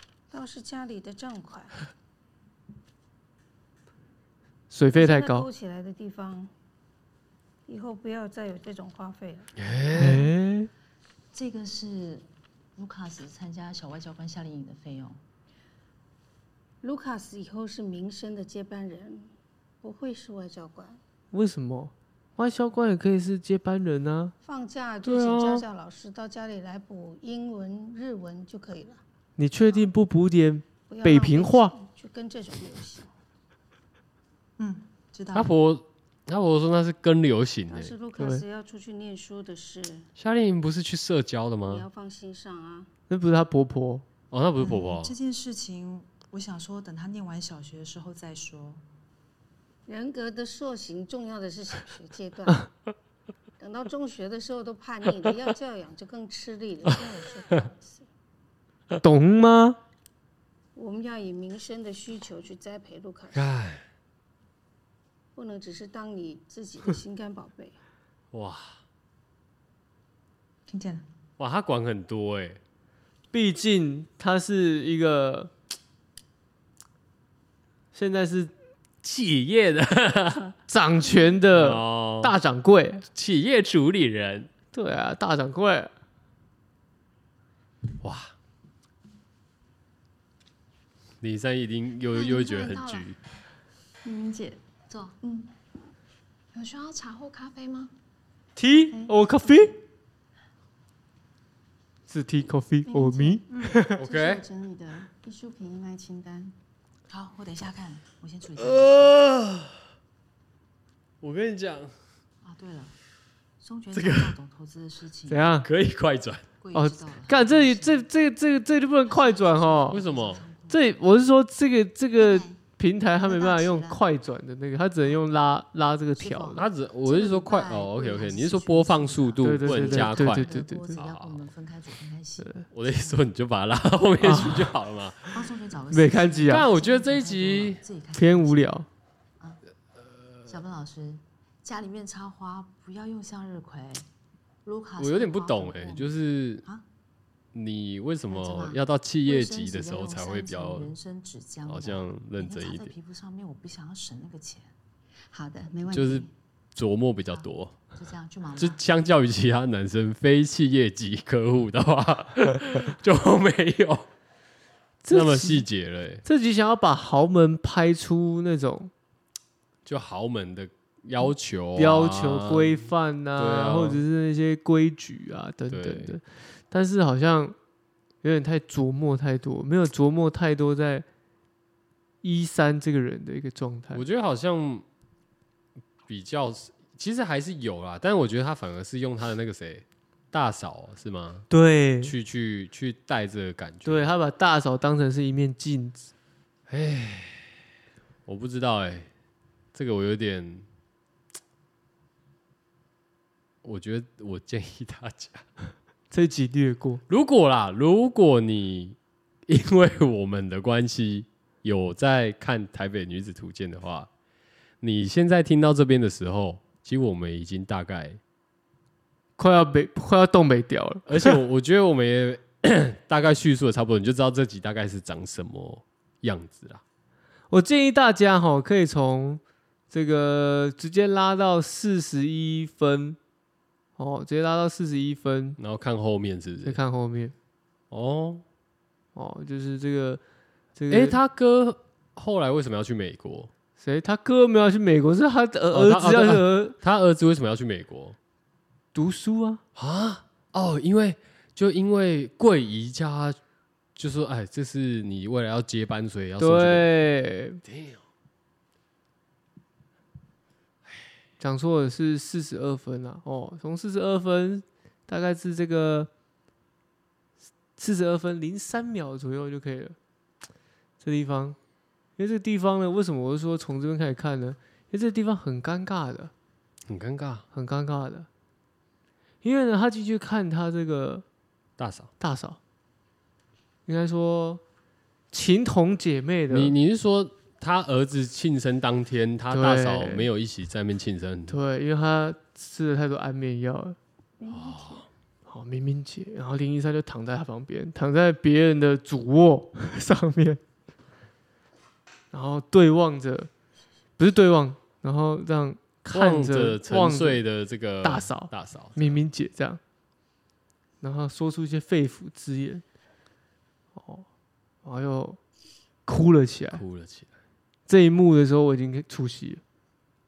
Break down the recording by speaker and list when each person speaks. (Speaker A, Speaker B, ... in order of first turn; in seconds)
Speaker A: 0.3-1.9, 4.9-6.5, 7.7-9.5, 16.8-21.0, 24.4-29.0, 30.9-33.1, 37.7-40.1, 41.6-42.9, 49.9-52.7, 53.6-58.1, 60.8-63.5, 65.3-67.8
Speaker B: 4.7-5.5, 9.9-10.7, 21.3-24.3, 29.4-31.7, 38.2-38.5, 43.1-44.0, 59.0-59.8, 73.3-75.5, 77.9-78.5, 80.7-83.0, 84.7-85.9, 98.6-99.8, 102.1-104.0, 115.3-115.7, 116.7-120.0, 120.7-126.6, 129.4-131.0, 134.2-134.7, 135.9-136.7, 138.1-138.9, 165.0-165.7, 166.2-168.9, 171.8-177.6, 178.2-181.1, 182.2-184.0, 191.5-192.1, 193.8-196.1, 206.1-207.0, 219.4-221.4, 227.5-233.2, 234.0-235.6, 236.6-237.3, 239.2-240.2, 240.8-241.2, 243.8-246.8, 248.9-249.6, 256.4-257.6, 261.4-266.1, 267.8-270.0, 271.0-271.6, 272.2-276.3, 277.5-278.3, 279.4-281.2, 282.2-282.6, 283.9-284.6, 285.3-286.7, 289.5-290.3, 291.5-294.0, 295.5-300.6, 302.3-303.5, 304.2-307.4, 308.0-309.8, 311.0-312.8, 314.0-314.2, 314.9-315.4, 316.1-316.8, 317.9-319.6
Speaker C: 9.6-10.3, 25.0-25.7, 35.3-37.9, 40.2-41.9, 44.3-45.1, 63.3-63.8, 68.3-68.8, 71.4-72.6, 79.0-80.5, 81.5-82.3, 83.1-84.5, 88.0-88.3, 91.2-93.2, 104.0-104.4, 108.6-109.8, 111.2-111.9, 113.9-114.4, 115.6-116.5, 119.9-120.4, 126.5-131.4, 132.7-135.5, 136.5-137.8, 145.0-146.7, 147.5-150.9, 151.7-152.9, 155.9-157.8, 158.6-164.1, 165.1-166.2, 169.8-174.0, 175.7-176.2, 183.9-184.9, 186.1-191.5, 192.0-194.1, 196.7-197.5, 198.3-199.1, 199.7-200.7, 203.6-205.4, 207.1-214.1, 214.8-218.2, 221.1-226.8, 235.6-236.8, 237.9-238.4, 240.9-243.5, 245.7-248.2, 249.8-253.4, 254.0-256.9, 257.6-258.0, 276.9-277.4, 281.8-282.1, 286.5-291.6, 294.5-295.1, 306.1-309.2, 316.7-317.3
Speaker D: 11.3-15.2, 34.6-35.5, 44.6-48.8, 70.7-71.1, 94.9-95.2, 103.5-103.8, 107.1-109.2, 112.4-113.0, 113.6-115.6, 116.6-118.1, 119.0-120.8, 122.2-122.6, 123.2-124.0, 126.2-133.2, 135.3-138.8, 140.5-144.1, 144.7-146.8, 148.3-154.8, 155.3-156.3, 157.3-158.8
Speaker E: 92.1-93.0, 94.0-94.7, 95.2-95.5, 96.5-97.9, 98.9-99.7, 102.9-106.5